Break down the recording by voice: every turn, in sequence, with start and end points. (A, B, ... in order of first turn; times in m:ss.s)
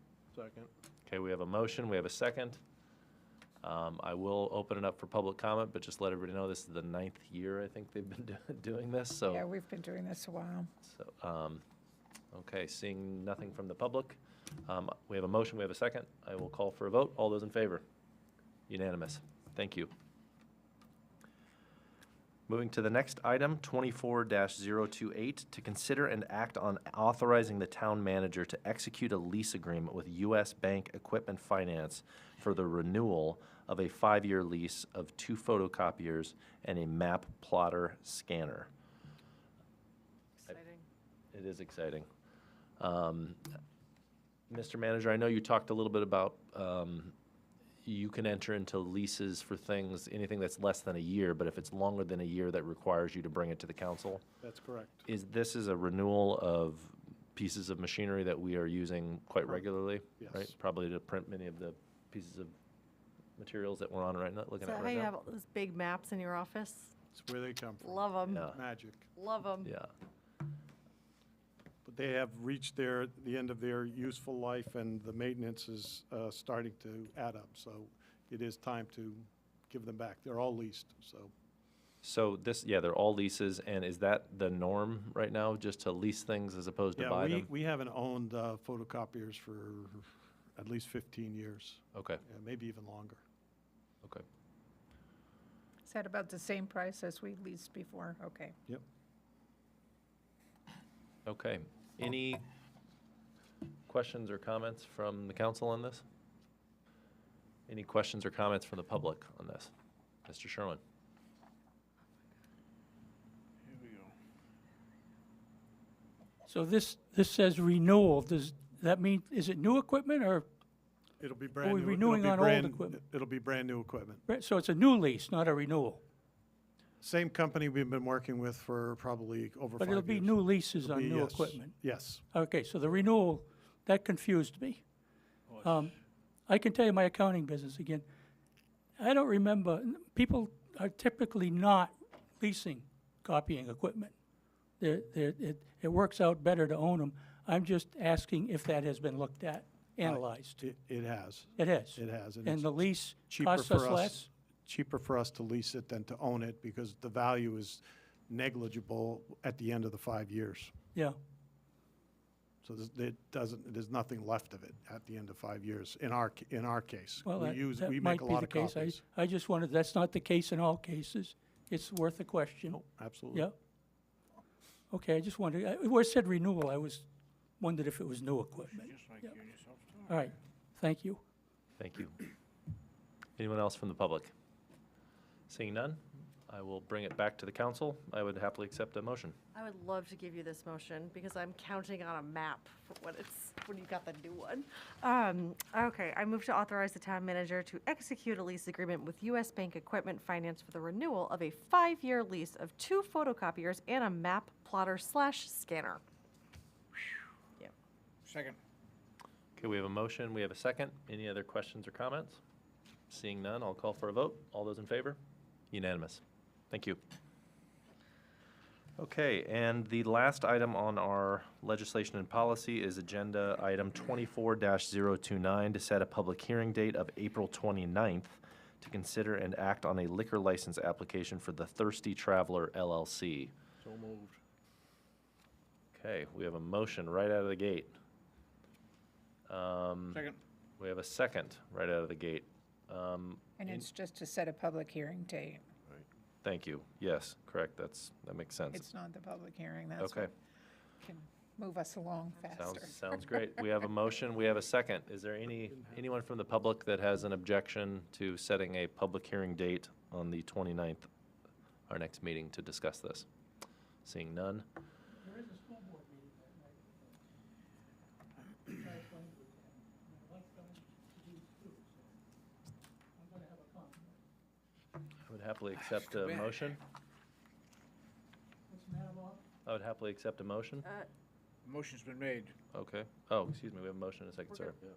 0:00.4-0:00.7 A
0:01.1-0:02.6 B
0:03.6-0:09.5 B
0:09.3-0:10.7 C
0:10.8-0:11.6 B
0:12.3-0:17.8 B
0:18.7-0:19.9 B
0:22.5-0:38.7 B
0:40.4-0:40.9 D
0:41.3-0:42.1 B
0:42.8-0:43.4 B
0:44.5-0:47.1 B
0:47.8-0:54.2 B
0:54.4-0:55.1 E
0:55.1-1:02.5 B
1:00.2-1:00.5 E
1:03.4-1:05.1 B
1:04.6-1:06.9 D
1:07.1-1:09.1 E
1:07.8-1:08.6 D
1:08.3-1:08.6 B
1:09.2-1:09.7 D
1:11.8-1:21.3 E
1:22.0-1:27.5 B
1:27.0-1:33.2 E
1:32.0-1:32.2 B
1:35.9-1:38.6 C
1:41.3-1:42.4 B
1:43.9-1:46.0 B
1:47.7-1:49.7 B
1:50.3-1:50.8 B
1:53.7-1:54.1 A
1:56.4-2:00.5 F
2:01.2-2:04.2 E
2:01.6-2:03.0 F
2:04.3-2:06.0 F
2:07.0-2:12.2 E
2:09.8-2:11.8 F
2:12.3-2:14.8 F
2:15.6-2:15.9 F
2:16.5-2:18.1 F
2:19.0-2:24.1 F
2:24.8-2:30.6 F
2:30.0-2:32.7 E
2:31.6-2:34.3 F
2:33.3-2:40.7 E
2:42.6-2:49.0 E
2:47.2-2:52.8 F
2:52.7-2:53.5 E
2:54.9-2:57.1 F
2:57.6-2:59.4 F
2:58.7-3:00.2 A
3:00.1-3:01.2 F
3:01.8-3:02.2 B
3:03.4-3:04.3 B
3:05.5-3:09.4 B
3:09.6-3:26.0 D
3:28.2-3:28.6 A
3:29.6-3:32.4 B
3:33.1-3:35.2 B
3:35.7-3:37.0 B
3:39.0-3:53.5 B
3:53.8-3:54.4 A
3:55.9-3:57.9 B
3:59.5-4:00.3 B
4:00.1-4:00.4 A
4:00.8-4:03.9 B
4:03.6-4:05.7 C
4:06.4-4:08.8 B
4:08.7-4:10.3 C
4:10.0-4:10.3 B
4:11.0-4:13.0 C
4:12.5-4:21.1 B
4:21.9-4:23.3 B
4:24.0-4:24.7 B
4:25.1-4:27.2 F
4:28.6-4:32.2 F
4:33.2-4:34.2 F
4:35.3-4:36.8 B
4:38.7-4:39.4 F
4:39.7-4:40.9 B
4:41.6-4:42.5 A
4:42.7-4:44.8 B